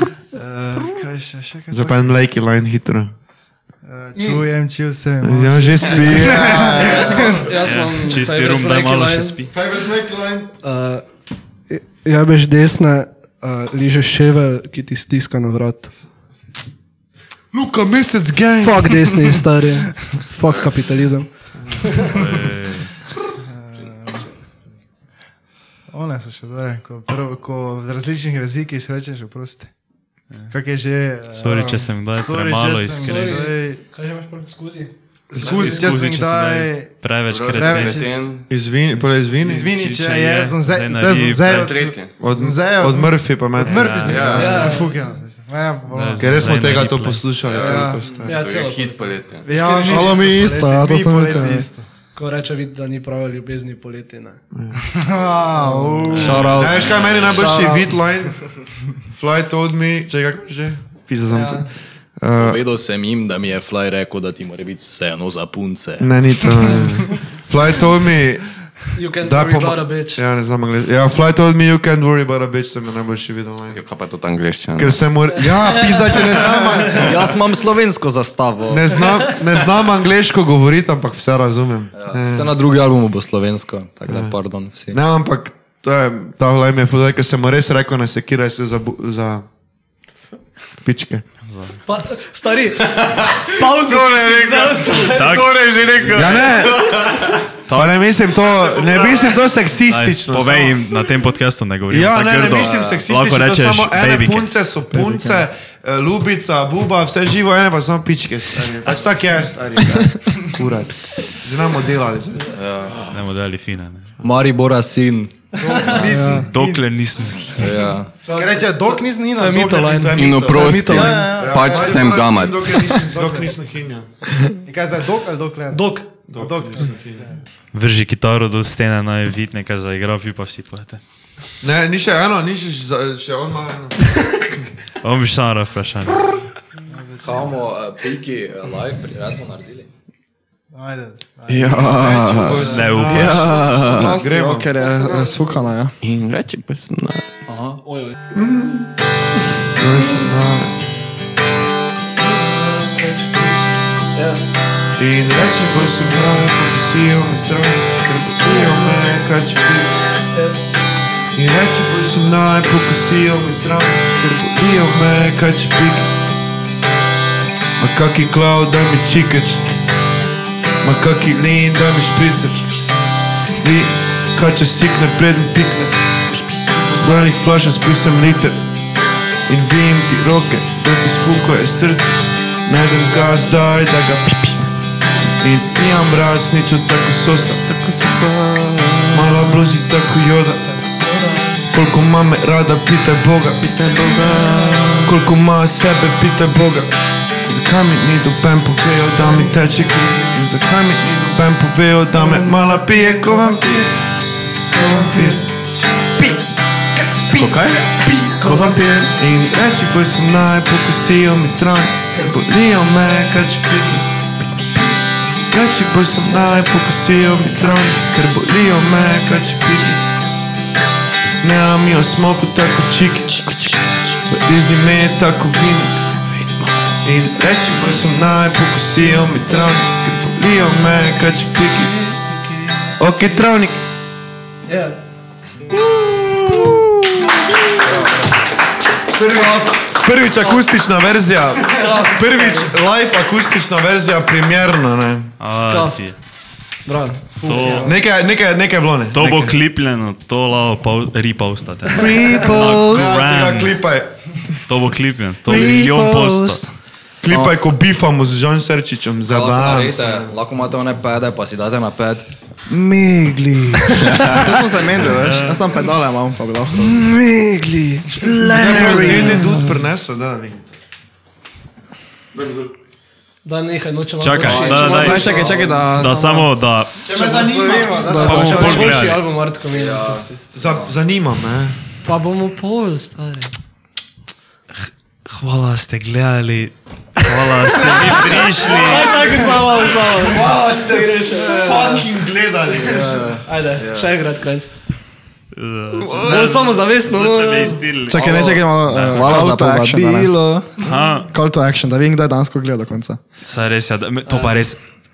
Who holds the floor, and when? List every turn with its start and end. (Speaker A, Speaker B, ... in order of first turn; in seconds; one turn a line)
Speaker A: 0.3-2.2
Speaker B: 1.7-3.1
Speaker A: 3.8-7.5
Speaker C: 4.1-4.4
Speaker B: 5.2-7.4
Speaker C: 6.8-9.4
Speaker D: 7.6-9.5
Speaker B: 9.5-10.5
Speaker C: 10.6-11.1
Speaker C: 11.7-15.9
Speaker B: 17.5-19.3
Speaker C: 18.6-22.1
Speaker B: 21.6-22.0
Speaker D: 22.1-22.9
Speaker A: 23.4-24.3
Speaker A: 25.9-29.8
Speaker A: 30.5-33.8
Speaker D: 31.4-33.5
Speaker C: 31.4-31.9
Speaker C: 33.0-34.9
Speaker A: 35.3-38.4
Speaker B: 35.3-35.8
Speaker D: 35.4-38.2
Speaker E: 35.4-35.8
Speaker E: 37.3-38.5
Speaker B: 38.5-39.9
Speaker A: 39.4-46.5
Speaker D: 39.7-41.7
Speaker E: 41.5-42.2
Speaker B: 42.2-44.3
Speaker D: 43.6-44.5
Speaker E: 44.0-44.7
Speaker C: 44.4-44.9
Speaker D: 45.9-47.3
Speaker B: 46.2-48.4
Speaker E: 47.4-49.5
Speaker A: 47.5-48.2
Speaker C: 48.2-50.3
Speaker A: 49.4-51.9
Speaker F: 49.9-51.7
Speaker C: 52.1-54.4
Speaker B: 54.5-54.8
Speaker A: 54.9-57.9
Speaker B: 55.8-62.6
Speaker G: 56.1-56.9
Speaker E: 56.9-57.5
Speaker C: 61.3-61.7
Speaker G: 62.4-66.1
Speaker B: 66.0-68.6
Speaker C: 68.9-70.2
Speaker B: 69.2-73.8
Speaker E: 73.7-75.2
Speaker B: 74.8-77.4
Speaker C: 75.6-76.9
Speaker G: 76.9-79.1
Speaker B: 78.7-82.5
Speaker G: 81.9-85.0
Speaker B: 84.1-84.4
Speaker B: 84.9-89.4
Speaker B: 90.8-91.2
Speaker D: 91.5-91.8
Speaker C: 91.8-95.5
Speaker E: 92.9-97.6
Speaker D: 94.9-96.7
Speaker B: 96.1-100.8
Speaker D: 97.7-98.0
Speaker E: 98.8-99.3
Speaker D: 99.9-104.5
Speaker B: 101.9-112.6
Speaker G: 102.5-103.0
Speaker F: 104.9-105.3
Speaker D: 108.8-109.1
Speaker G: 112.5-113.1
Speaker D: 113.1-114.1
Speaker G: 114.2-115.5
Speaker A: 115.6-116.9
Speaker B: 115.7-116.5
Speaker D: 116.5-117.8
Speaker G: 117.5-118.1
Speaker A: 118.2-120.1
Speaker B: 118.2-124.2
Speaker C: 119.3-121.3
Speaker E: 120.1-123.1
Speaker A: 120.9-122.0
Speaker A: 123.1-123.5
Speaker A: 124.6-127.4
Speaker C: 125.7-126.1
Speaker B: 126.3-127.2
Speaker D: 127.7-131.0
Speaker B: 131.6-134.7
Speaker D: 135.0-136.3
Speaker A: 136.9-137.7
Speaker G: 137.2-139.9
Speaker A: 140.7-143.0
Speaker E: 141.5-144.2
Speaker B: 141.7-144.7
Speaker D: 142.7-143.7
Speaker F: 143.9-145.9
Speaker C: 144.7-145.7
Speaker E: 146.0-147.3
Speaker G: 147.5-147.8
Speaker C: 147.8-148.1
Speaker B: 148.3-148.9
Speaker B: 149.6-150.9
Speaker C: 152.2-153.4
Speaker C: 154.1-154.4
Speaker B: 154.9-160.0
Speaker C: 160.3-160.6
Speaker B: 161.3-166.1
Speaker B: 167.8-169.7
Speaker B: 170.8-172.9
Speaker B: 173.6-176.2
Speaker E: 176.5-177.2
Speaker B: 176.9-178.6
Speaker B: 179.5-184.6
Speaker B: 185.4-187.7
Speaker E: 187.7-189.7
Speaker B: 189.1-190.6
Speaker C: 190.6-191.6
Speaker B: 191.7-193.7
Speaker E: 193.6-195.1
Speaker C: 194.1-195.1
Speaker B: 195.1-196.9
Speaker B: 197.4-203.8
Speaker A: 203.3-203.7
Speaker B: 204.7-205.5
Speaker B: 206.2-206.4
Speaker B: 207.0-214.1
Speaker E: 207.3-209.1
Speaker B: 215.5-220.0
Speaker B: 221.4-223.5
Speaker E: 223.4-224.1
Speaker B: 224.3-226.1
Speaker E: 226.3-226.8
Speaker B: 227.0-232.1
Speaker B: 233.0-233.8
Speaker C: 234.7-235.0
Speaker B: 235.7-237.9
Speaker G: 237.8-238.1
Speaker B: 239.1-245.3
Speaker C: 239.2-240.7
Speaker C: 241.7-242.8
Speaker D: 245.4-246.2
Speaker C: 245.5-246.1
Speaker C: 246.8-247.9
Speaker A: 247.4-247.9
Speaker D: 247.4-248.0
Speaker B: 247.8-249.6
Speaker D: 249.1-253.8
Speaker B: 251.9-254.6
Speaker G: 252.2-252.8
Speaker D: 254.7-256.7
Speaker A: 255.5-256.6
Speaker G: 255.6-256.1
Speaker B: 257.2-260.4
Speaker G: 257.2-257.6
Speaker G: 259.2-262.3
Speaker A: 262.7-264.0
Speaker C: 264.0-264.3
Speaker F: 264.2-267.1
Speaker D: 265.0-265.7
Speaker C: 266.8-269.5
Speaker A: 268.2-269.2
Speaker B: 268.5-270.7
Speaker G: 268.9-269.4
Speaker B: 272.3-272.7
Speaker C: 273.4-275.9
Speaker D: 274.2-276.9
Speaker F: 274.7-276.5
Speaker A: 277.0-279.0
Speaker B: 277.1-278.8
Speaker F: 277.9-278.7
Speaker D: 278.2-279.2
Speaker C: 278.3-280.3
Speaker G: 279.7-280.9
Speaker B: 280.5-281.8
Speaker C: 282.0-283.5
Speaker D: 285.2-289.4
Speaker C: 287.4-292.0
Speaker B: 290.1-293.4
Speaker G: 292.8-294.1
Speaker C: 293.4-294.7
Speaker D: 295.5-299.5
Speaker B: 296.0-296.7
Speaker C: 296.1-297.8
Speaker F: 298.1-300.4
Speaker G: 298.2-298.6
Speaker G: 299.1-300.8
Speaker D: 300.8-301.3
Speaker F: 301.3-303.2
Speaker D: 303.4-304.8
Speaker C: 304.2-304.6